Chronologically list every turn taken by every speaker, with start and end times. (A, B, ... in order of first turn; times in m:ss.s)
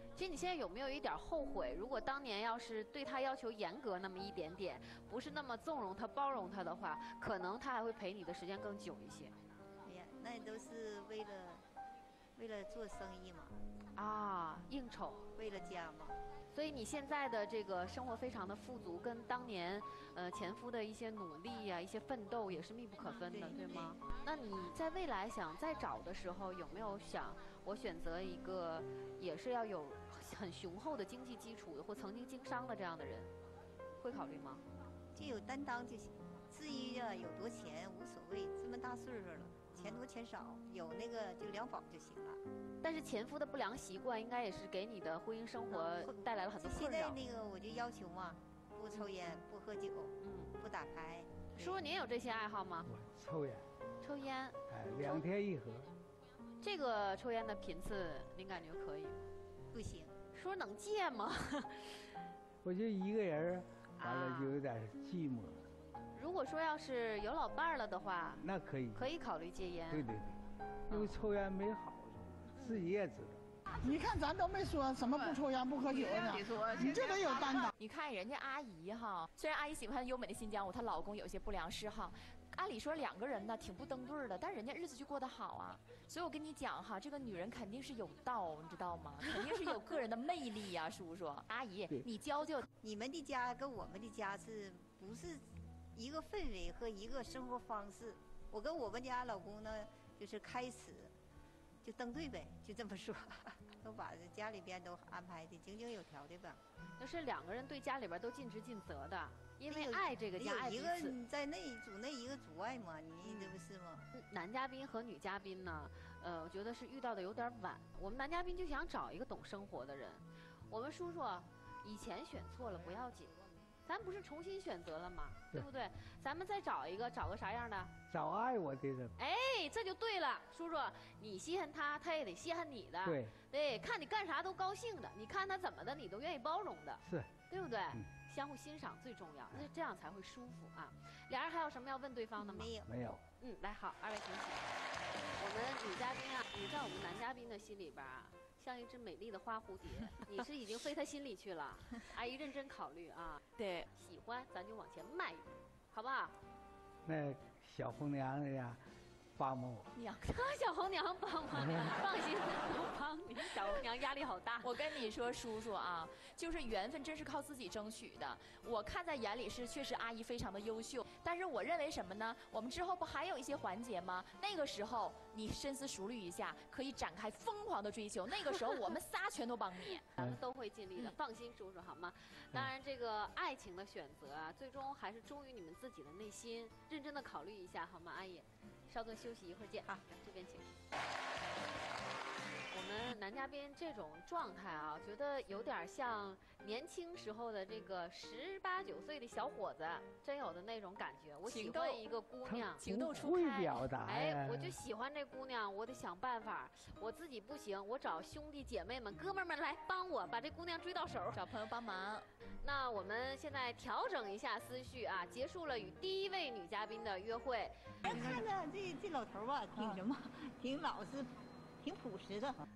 0:00.2-0:09.4 A
0:09.8-0:11.6 B
0:12.4-0:13.6 B
0:14.0-0:15.2 A
0:15.4-0:16.2 B
0:16.5-0:33.3 A
0:23.1-0:24.0 B
0:34.0-0:34.6 A
0:35.1-0:42.4 B
0:39.8-0:40.0 A
0:42.8-0:47.2 A
0:45.7-0:51.8 B
0:50.2-0:50.6 A
0:51.6-0:52.9 A
0:52.9-0:53.7 C
0:54.0-0:55.3 A
0:54.7-0:55.9 C
0:56.6-0:59.2 A
0:59.7-1:00.1 B
1:00.3-1:02.1 A
1:02.6-1:05.7 C
1:04.0-1:04.6 A
1:06.1-1:10.1 A
1:08.4-1:09.1 C
1:09.9-1:13.4 C
1:10.9-1:11.1 A
1:12.6-1:12.8 A
1:13.8-1:17.7 D
1:16.7-1:17.1 E
1:17.8-1:32.7 E
1:32.8-1:41.1 B
1:41.8-1:46.6 B
1:47.0-1:51.2 A
1:49.7-1:54.1 B
1:53.2-1:53.6 A
1:54.1-2:07.9 A
2:08.1-2:09.2 C
2:09.2-2:22.7 A
2:13.0-2:13.3 C
2:17.0-2:17.3 C
2:22.4-2:23.0 B
2:22.9-2:23.2 C
2:23.4-2:24.7 A
2:25.4-2:36.4 A
2:33.6-2:33.9 E
2:37.0-2:38.8 C
2:39.4-2:39.9 C
2:40.0-2:40.2 E
2:40.2-2:44.8 A
2:41.6-2:41.9 C
2:44.6-3:00.0 E
2:59.9-3:10.7 A
3:12.7-3:22.8 A
3:21.4-3:22.0 E
3:22.5-3:24.8 C
3:22.7-3:23.9 E
3:24.0-3:31.4 A
3:31.3-3:32.3 E
3:32.6-3:37.8 A
3:38.0-3:42.6 B